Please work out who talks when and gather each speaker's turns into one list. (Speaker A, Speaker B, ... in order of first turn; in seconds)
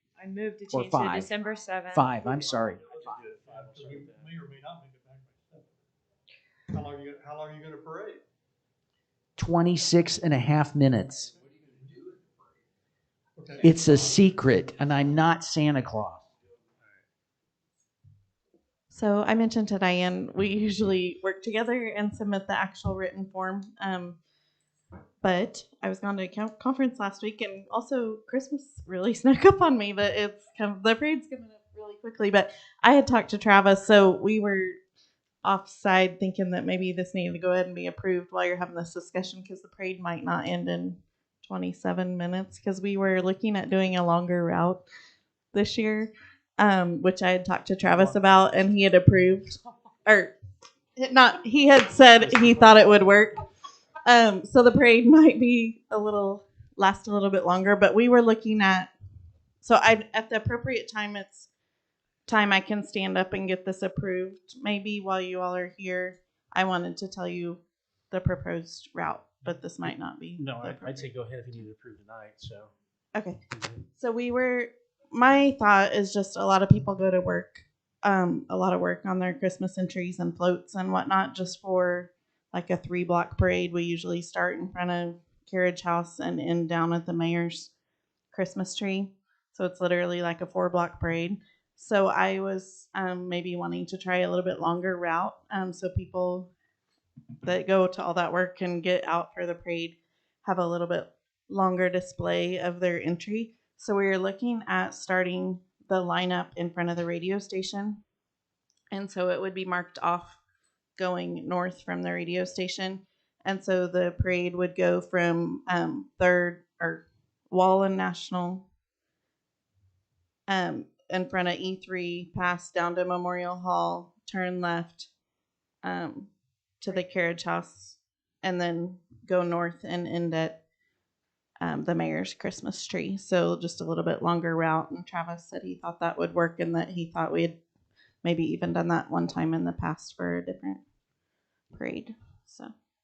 Speaker A: 0.2-2.1
Speaker B: 0.7-1.3, 1.9-3.2, 9.4-11.3, 13.6-16.2
Speaker C: 2.3-5.8, 6.7-8.2, 11.4-12.1, 13.4-14.0
Speaker D: 3.0-4.3, 47.9-48.7, 52.2-53.1, 69.8-72.7, 73.5-73.9
Speaker E: 18.9-24.2, 25.2-34.8, 35.4-44.8, 45.5-50.3, 51.0-53.4, 54.0-58.9, 59.6-61.5, 62.3-71.1, 73.1-73.4, 73.9-87.7, 88.3-96.5, 97.5-108.0, 108.9-110.4, 111.0-118.7, 120.5-125.1, 125.8-130.6, 131.6-137.6, 138.2-140.8, 141.7-142.7